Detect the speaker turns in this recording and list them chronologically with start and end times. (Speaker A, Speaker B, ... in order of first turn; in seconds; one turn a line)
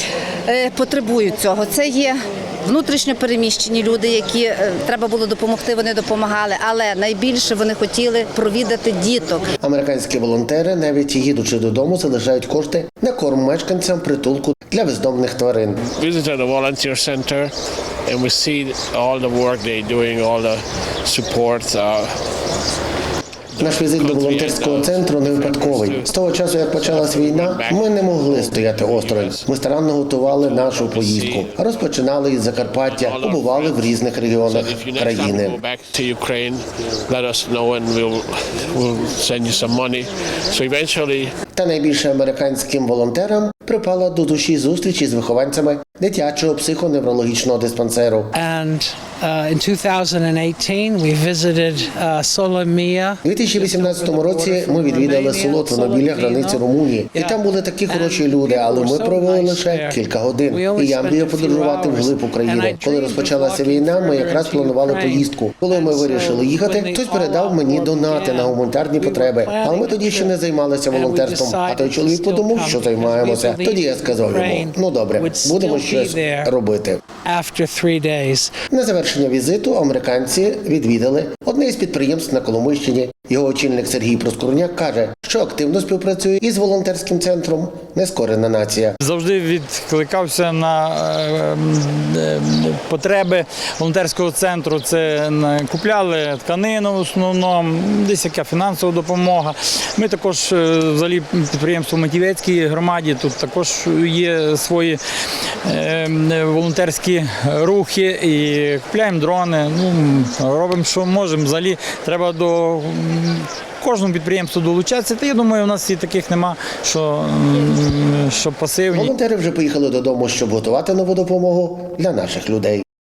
Speaker A: 0.5-9.5
Speaker B: 9.6-15.8
Speaker C: 15.8-17.5
Speaker C: 18.1-22.2
Speaker C: 23.6-29.5
Speaker B: 23.6-35.6
Speaker C: 30.2-31.8
Speaker C: 32.5-41.3
Speaker B: 41.5-48.3
Speaker D: 48.3-70.3
Speaker B: 53.2-77.0
Speaker D: 70.9-76.5
Speaker D: 77.2-78.5
Speaker B: 78.7-89.0
Speaker E: 89.0-105.0
Speaker E: 105.7-119.1
Speaker B: 118.9-122.8